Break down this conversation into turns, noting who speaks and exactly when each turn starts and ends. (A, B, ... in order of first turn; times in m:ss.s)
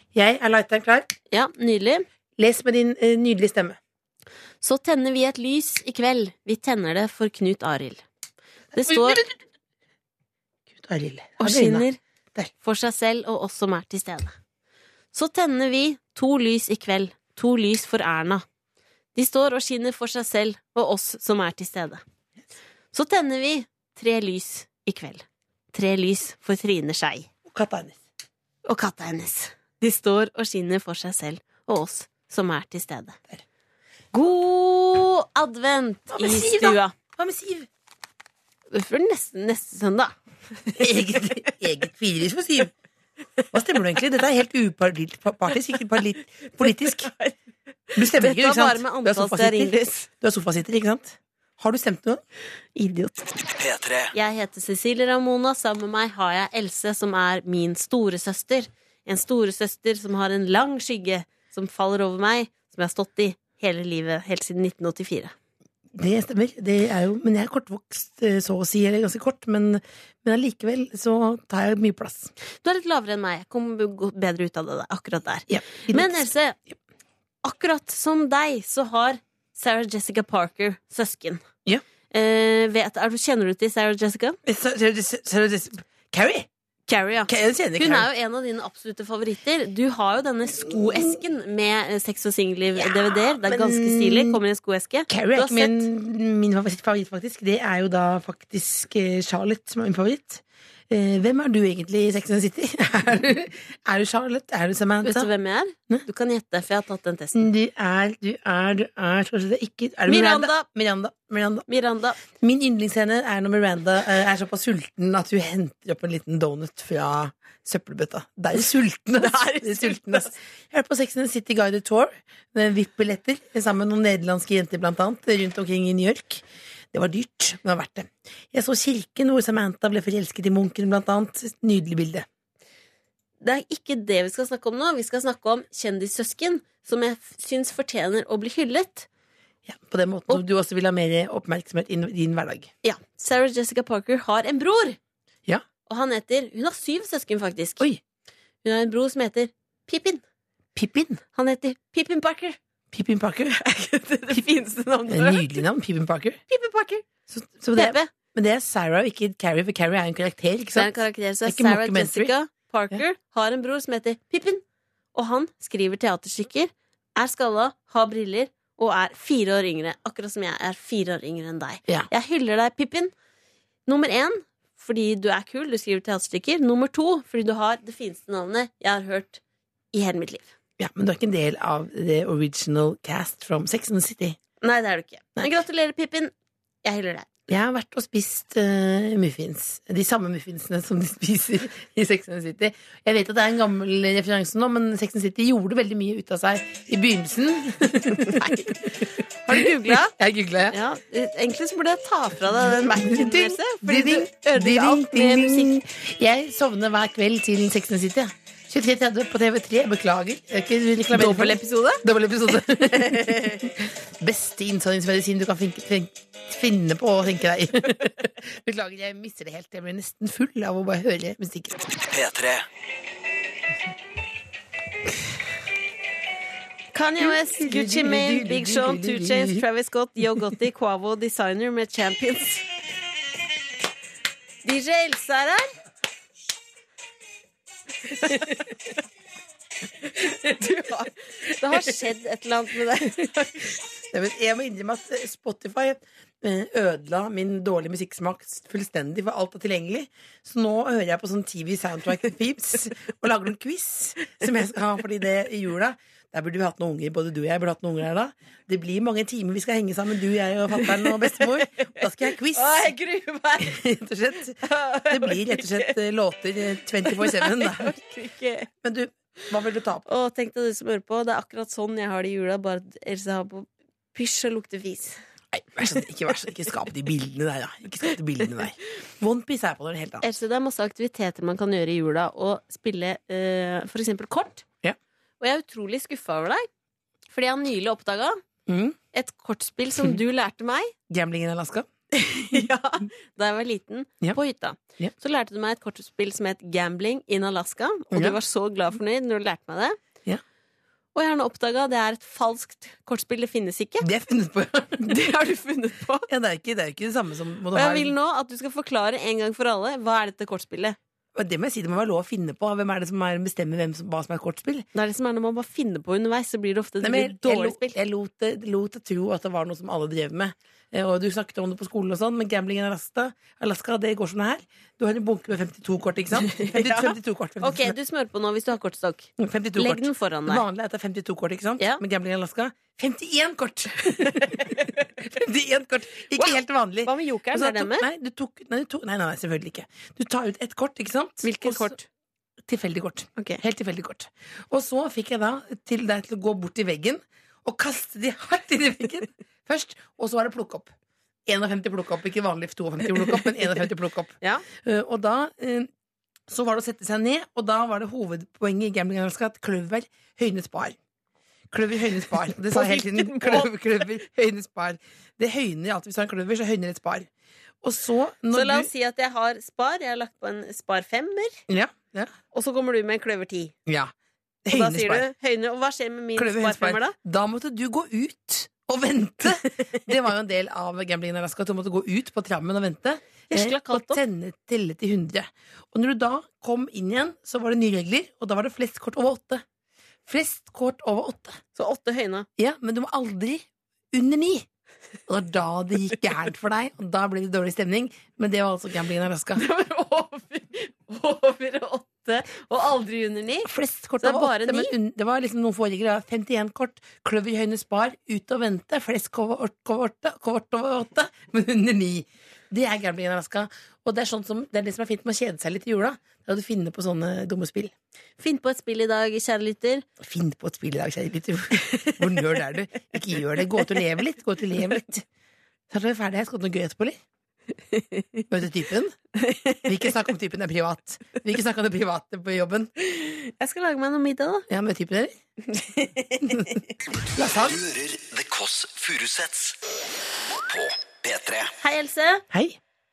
0:00.1-0:01.1 A
0:01.3-0:02.1 B
0:02.4-0:03.8 A
0:04.6-0:08.0 B
0:08.7-0:09.2 B
0:08.8-0:09.4 A
0:10.7-0:12.5 A
0:11.4-0:12.0 B
0:12.6-0:14.3 B
0:15.1-0:18.4 B
0:19.1-0:22.0 B
0:22.9-0:27.3 B
0:27.4-0:28.0 A
0:28.6-0:33.2 B
0:34.1-0:36.9 B
0:36.1-0:37.7 A
0:38.7-0:40.1 B
0:40.6-0:41.2 B
0:40.8-0:42.7 A
0:43.5-0:47.1 A
0:46.6-0:47.3 B
0:48.0-0:50.1 B
0:48.0-0:52.2 A
0:52.7-0:53.3 B
0:53.5-0:54.1 C
0:54.1-1:05.3 B
1:06.0-1:12.3 A
1:12.6-1:16.6 B
1:15.5-1:16.2 A
1:17.4-1:21.4 B
1:22.1-1:24.4 B
1:24.4-1:26.5 A
1:26.9-1:35.9 B
1:27.3-1:28.1 A
1:32.8-1:34.4 A
1:35.1-1:45.3 A
1:45.0-1:47.5 B
1:47.3-1:51.7 A
1:50.1-1:50.6 B
1:51.7-1:52.2 B
1:52.2-2:12.2 A
1:59.2-2:00.3 B
2:13.4-2:19.1 B
2:19.6-2:22.7 A
2:22.8-2:25.0 B
2:25.8-2:27.8 B
2:28.6-2:30.2 B
2:30.8-2:31.2 A
2:31.3-2:32.6 B
2:32.9-2:33.6 A
2:33.6-2:35.6 B
2:35.1-2:36.4 A
2:36.5-2:37.0 B
2:37.3-2:40.9 A
2:37.8-2:38.1 B
2:40.7-2:44.6 B
2:41.4-2:42.3 A
2:45.1-2:53.1 B
2:53.8-2:59.4 B
2:59.9-3:00.5 B
3:00.8-3:04.4 A
3:04.6-3:06.3 B
3:06.8-3:07.3 B
3:07.5-3:18.9 A
3:18.4-3:18.7 B
3:19.4-3:20.1 B
3:19.5-3:20.8 A
3:20.7-3:25.8 B
3:23.0-3:41.7 A
3:31.1-3:32.0 B
3:33.1-3:33.6 B
3:41.8-3:42.6 C
3:46.9-3:52.6 B
3:47.2-3:49.6 A
3:54.6-3:55.7 B
4:00.2-4:03.5 B
4:04.1-4:22.9 A
4:20.9-4:23.7 B
4:23.6-4:24.6 A
4:24.6-4:26.0 B
4:25.1-4:27.9 A
4:26.8-4:28.7 B
4:28.8-4:30.0 A
4:30.0-4:35.2 B
4:35.5-4:40.2 A
4:40.2-4:44.6 B
4:45.4-4:46.7 B
4:47.3-4:48.4 B
4:48.7-4:49.0 A
4:49.1-4:50.9 B
4:51.1-4:51.9 A
4:52.1-5:00.0 B
5:01.1-5:04.0 B
5:04.0-5:05.1 A
5:05.0-5:06.3 B
5:06.3-5:08.1 A
5:07.7-5:11.0 B
5:11.4-5:14.9 A
5:14.9-5:18.0 B
5:17.0-5:27.9 A
5:26.5-5:30.6 B
5:29.4-5:41.9 A
5:34.3-5:34.9 B
5:36.4-5:38.1 B
5:41.4-5:42.0 B
5:42.7-5:50.9 A
5:51.5-5:55.9 A
5:56.5-6:01.0 A
6:01.7-6:07.3 A
6:02.7-6:04.0 B
6:07.8-6:08.9 A
6:08.5-6:11.6 B
6:11.7-6:12.3 A
6:12.5-6:13.7 B
6:13.8-6:14.1 A
6:14.6-6:15.3 A
6:14.7-6:17.1 B
6:16.4-6:29.6 A
6:23.5-6:24.2 B
6:30.3-6:31.6 A
6:31.8-6:32.5 B
6:32.6-6:34.6 A
6:35.3-6:39.6 A
6:39.6-6:43.7 B
6:43.7-6:57.9 A
6:44.2-6:44.9 B
6:58.4-7:00.0 B
7:00.2-7:05.2 A
7:05.9-7:07.2 A
7:07.9-7:08.4 B
7:08.5-7:09.2 A
7:09.4-7:09.8 B
7:09.8-7:12.9 A
7:13.0-7:14.6 B
7:14.7-7:15.3 A
7:15.7-7:16.8 B
7:16.5-7:16.8 A
7:17.4-7:17.8 A
7:17.4-7:19.8 C
7:20.7-7:21.7 C
7:21.8-7:22.4 B
7:22.5-7:22.8 A